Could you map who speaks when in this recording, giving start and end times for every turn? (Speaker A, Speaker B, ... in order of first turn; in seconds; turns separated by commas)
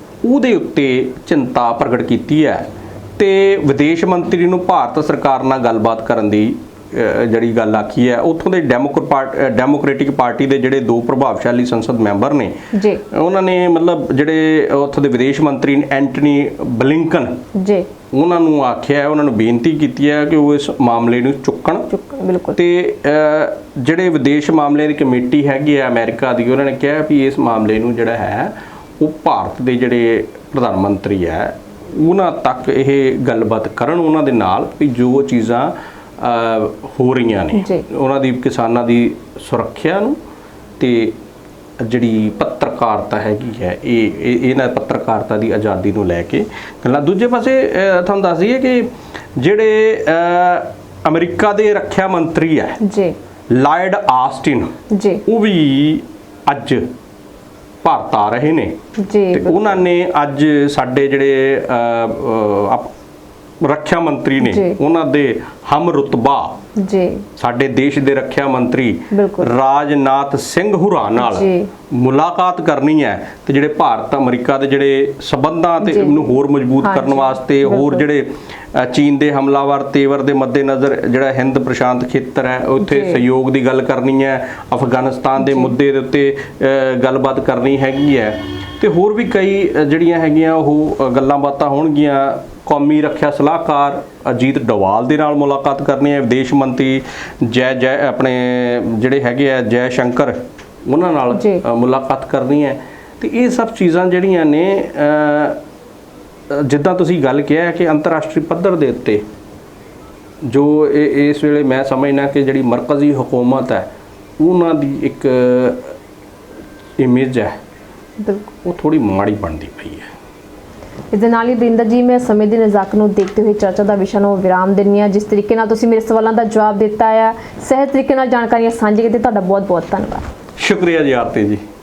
Speaker A: 0.2-12.5, Speaker B: 12.7-13.0, Speaker A: 13.1-17.4, Speaker B: 17.6-17.9, Speaker A: 18.1-21.9, Speaker B: 21.9-22.6, Speaker A: 22.5-40.2, Speaker B: 37.5-37.8, Speaker A: 40.8-41.2, Speaker A: 41.8-52.8, Speaker B: 52.8-53.1, Speaker A: 53.5-54.7, Speaker B: 54.9-55.2, Speaker A: 55.2-56.9, Speaker A: 57.8-58.8, Speaker B: 59.0-59.8, Speaker A: 59.3-62.9, Speaker A: 63.6-66.6, Speaker B: 64.4-64.8, Speaker B: 66.8-67.2, Speaker A: 67.4-105.6, Speaker B: 69.1-69.5, Speaker B: 71.2-71.7, Speaker B: 75.8-76.2, Speaker B: 76.8-78.0, Speaker B: 82.8-83.2, Speaker B: 85.4-85.7, Speaker B: 101.3-101.6, Speaker A: 106.5-109.2, Speaker A: 110.4-113.9, Speaker A: 114.4-115.9, Speaker A: 117.0-117.6, Speaker B: 118.2-118.5, Speaker A: 118.6-120.1, Speaker B: 121.1-130.2, Speaker A: 130.6-131.6